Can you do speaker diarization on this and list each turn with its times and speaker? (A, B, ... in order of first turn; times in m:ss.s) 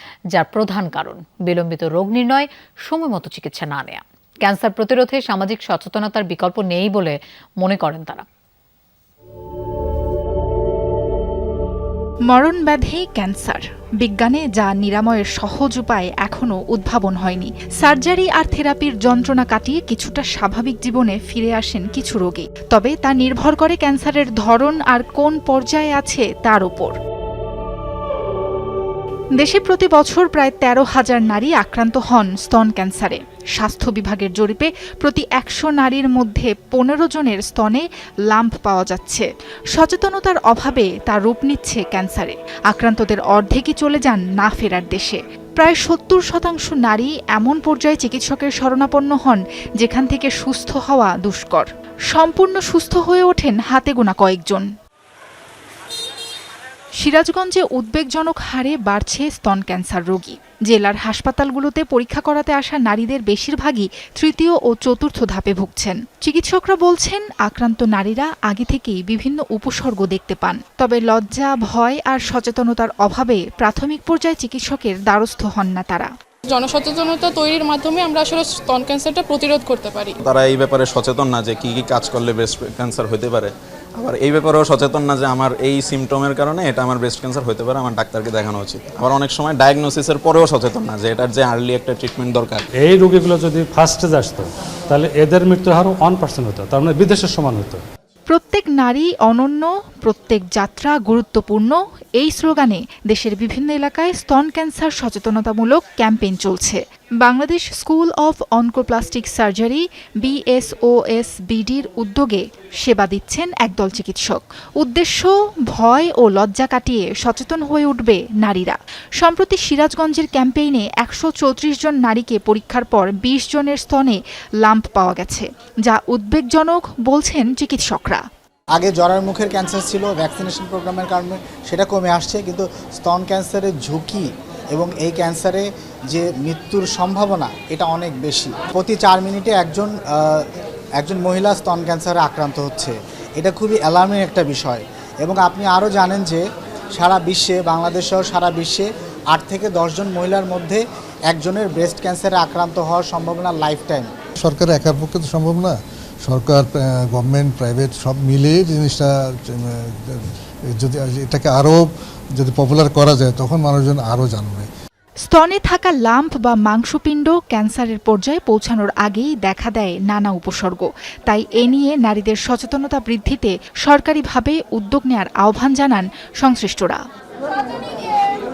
0:00.3-0:08.2 A
0:12.3-0:27.0 B
0:29.4-0:54.7 B
0:57.0-1:16.1 B
1:16.5-1:20.2 C
1:20.2-1:32.6 D
1:33.0-1:34.4 E
1:34.9-1:37.8 E
1:38.3-2:08.2 B
2:08.8-2:20.4 F
2:21.0-2:26.4 F
2:27.0-2:34.1 F
2:34.4-2:35.7 G
2:36.3-2:39.0 G
2:40.8-2:41.8 G
2:42.4-2:44.6 G
2:45.2-2:57.0 B